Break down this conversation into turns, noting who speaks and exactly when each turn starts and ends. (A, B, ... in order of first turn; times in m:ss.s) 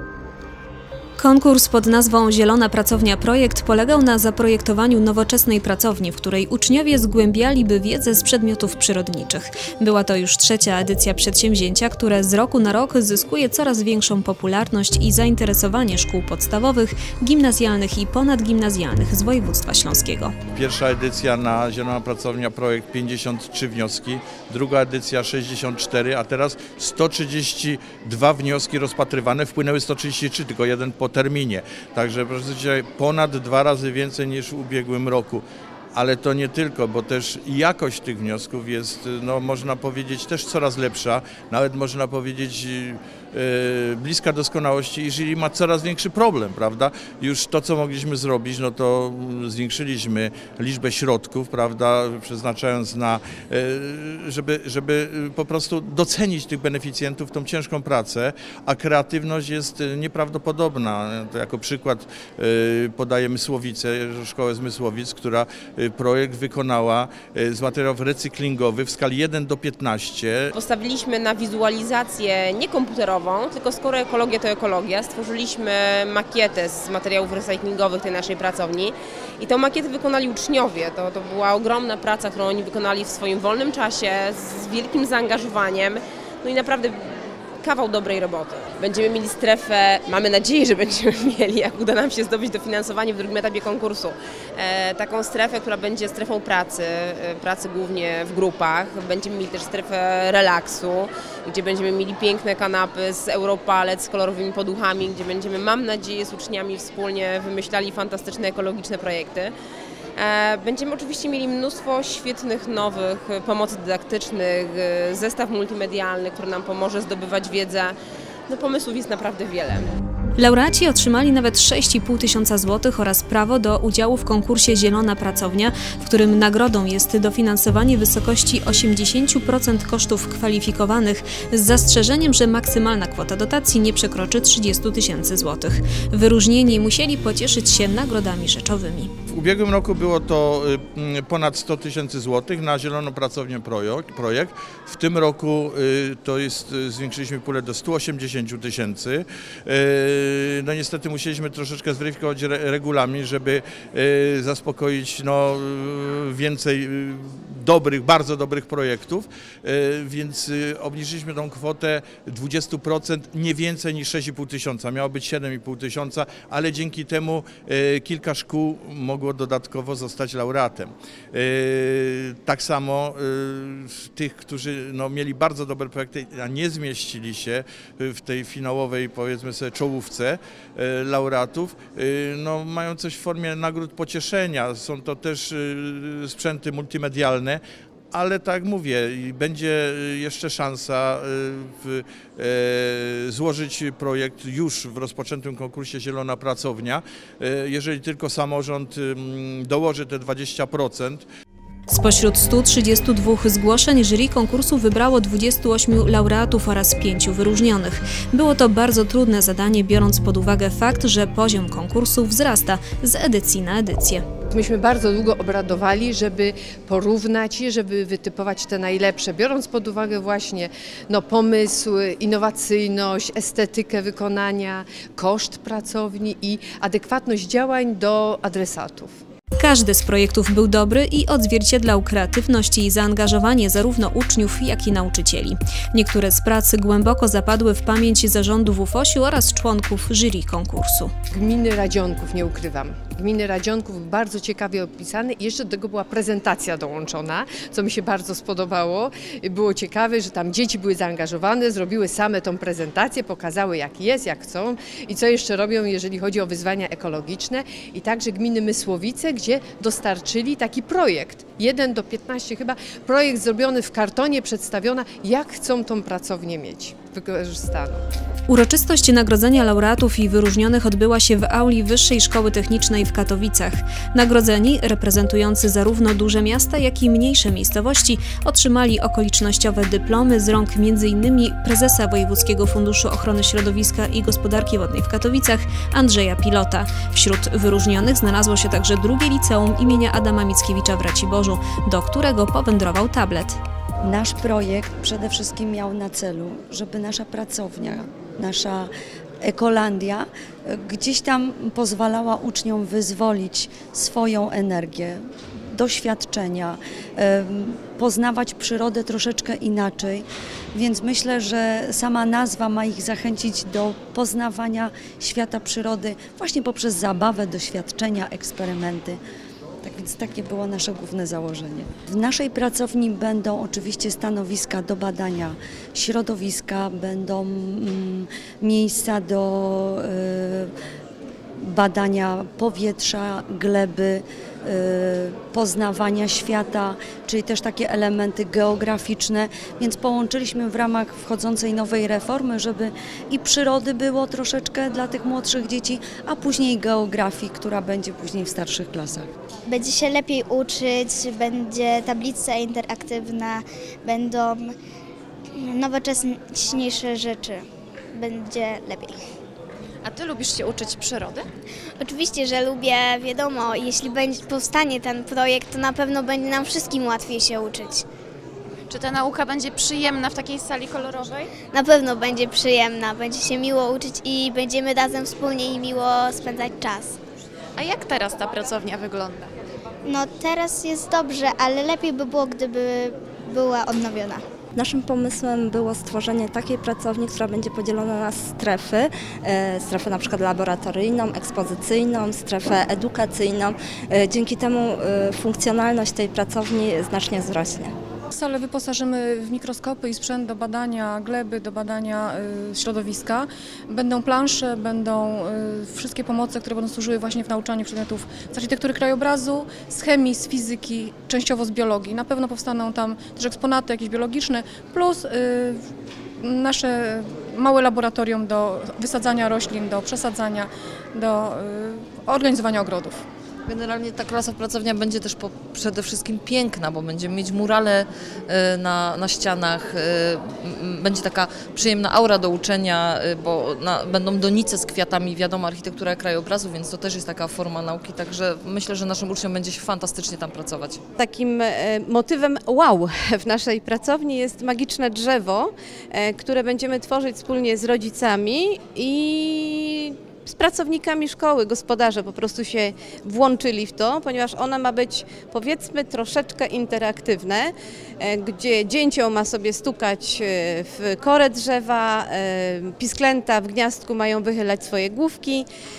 0:01.2-0:20.3 A
0:20.6-0:35.4 B
0:36.0-1:10.5 B
1:10.6-1:27.0 C
1:27.6-1:49.5 C
1:50.2-1:58.0 C
1:58.5-1:59.9 C
2:00.4-2:19.1 A
2:19.3-3:07.6 B
3:08.1-3:21.3 B
3:21.9-3:34.2 A
3:34.5-3:49.2 D
3:49.6-4:01.1 A
4:01.3-4:28.0 D
4:28.5-4:53.6 A
4:54.0-4:58.9 E
4:59.4-5:05.2 E
5:05.7-5:19.2 E
5:19.8-5:30.7 E
5:31.6-5:49.3 E
5:49.7-5:54.8 F
5:55.6-5:59.2 F
6:00.0-6:01.5 G
6:02.0-6:08.0 F
6:08.9-6:11.5 G
6:11.7-6:17.2 F
6:17.8-6:19.5 G
6:20.1-6:24.4 F
6:24.8-6:38.0 H
6:38.3-6:55.8 I
6:56.4-7:03.2 I
7:03.7-7:21.0 J
7:21.2-7:45.7 K